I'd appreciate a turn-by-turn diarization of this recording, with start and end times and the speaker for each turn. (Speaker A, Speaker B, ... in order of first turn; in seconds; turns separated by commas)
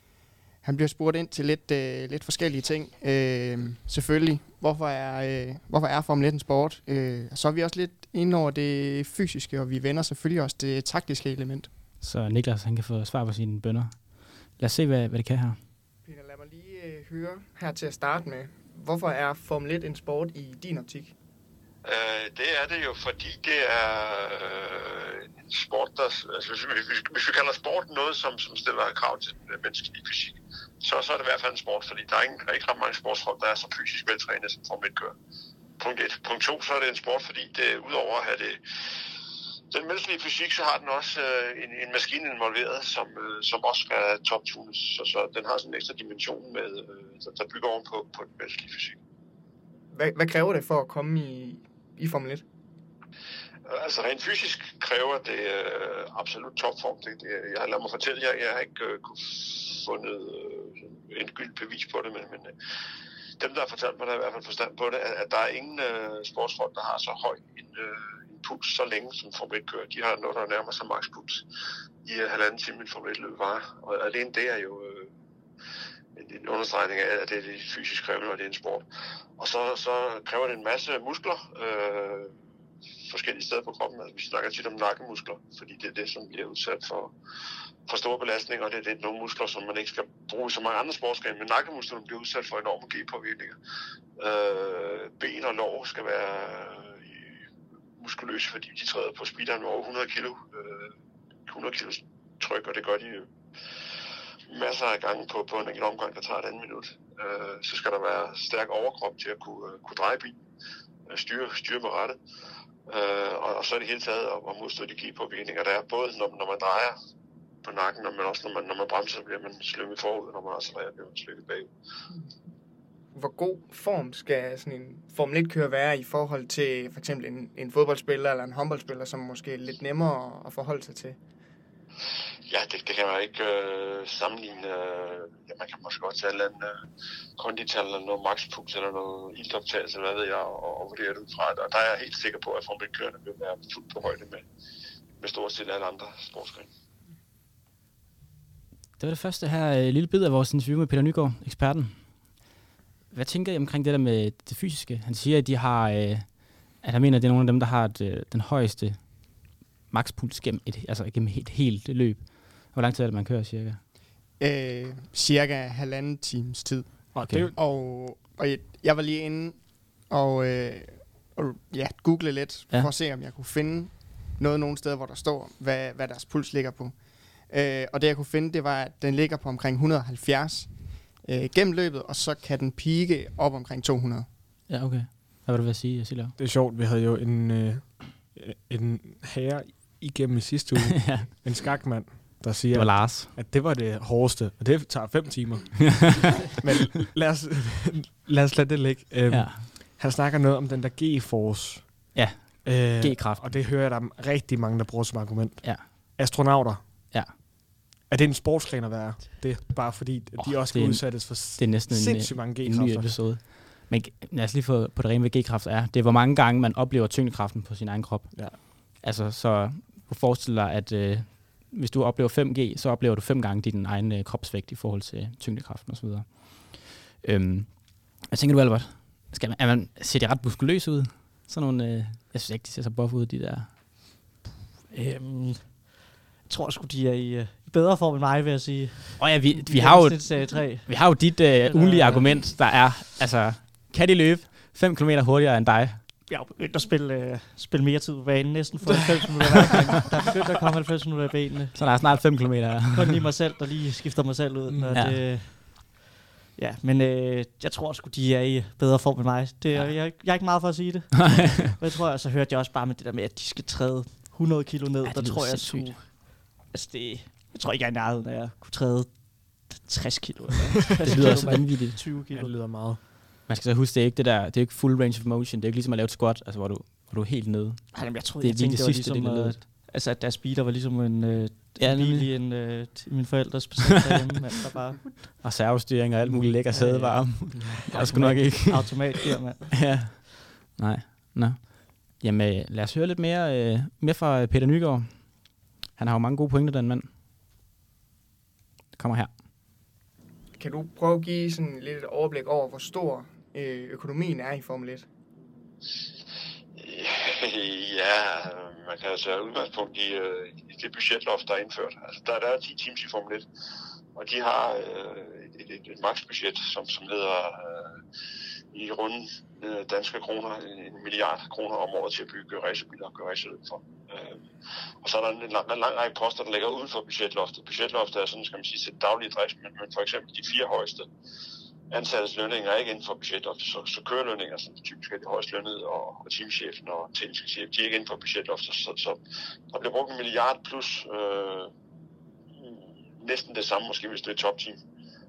Speaker A: 0.6-11.7, Speaker B: 12.0-15.6, Speaker A: 16.0-21.1, Speaker C: 21.8-35.1, Speaker C: 35.8-39.0, Speaker C: 39.7-49.0, Speaker A: 49.9-52.4, Speaker C: 53.6-62.5, Speaker C: 63.4-71.4, Speaker C: 72.0-75.1, Speaker C: 76.1-82.3, Speaker C: 83.0-87.1, Speaker C: 87.9-93.6, Speaker C: 94.2-97.4, Speaker C: 98.0-100.9, Speaker C: 101.5-103.3, Speaker C: 104.5-110.4, Speaker C: 111.1-112.2, Speaker C: 112.9-116.9, Speaker C: 117.6-121.7, Speaker A: 123.1-131.2, Speaker C: 132.5-136.8, Speaker C: 137.4-144.4, Speaker C: 145.2-146.7, Speaker B: 149.0-152.4, Speaker B: 153.1-163.8, Speaker A: 164.4-176.9, Speaker D: 167.1-167.6, Speaker B: 167.2-167.5, Speaker A: 177.5-184.3, Speaker B: 184.7-186.3, Speaker D: 186.4-207.1, Speaker B: 191.0-191.3, Speaker B: 192.7-193.3, Speaker B: 199.3-199.7, Speaker B: 202.1-203.6, Speaker B: 205.6-205.9, Speaker D: 208.1-213.1, Speaker B: 210.4-233.8, Speaker E: 234.9-235.9, Speaker E: 236.4-242.8, Speaker B: 239.2-246.1, Speaker E: 246.3-251.7, Speaker B: 251.7-253.1, Speaker E: 252.9-255.9, Speaker D: 254.7-255.1, Speaker B: 254.9-255.2, Speaker E: 256.6-272.6, Speaker B: 259.7-260.0, Speaker B: 261.2-261.7, Speaker B: 265.0-266.0, Speaker B: 271.0-272.0, Speaker D: 272.3-273.0, Speaker B: 273.5-279.7, Speaker E: 277.9-285.3, Speaker B: 281.8-282.3, Speaker B: 285.4-289.1, Speaker E: 286.2-290.2, Speaker B: 289.7-297.1, Speaker B: 298.9-299.3, Speaker A: 300.6-305.1, Speaker C: 306.7-313.4, Speaker C: 314.1-318.0, Speaker C: 318.7-324.5, Speaker C: 325.0-331.1, Speaker C: 331.9-341.7, Speaker C: 342.5-344.8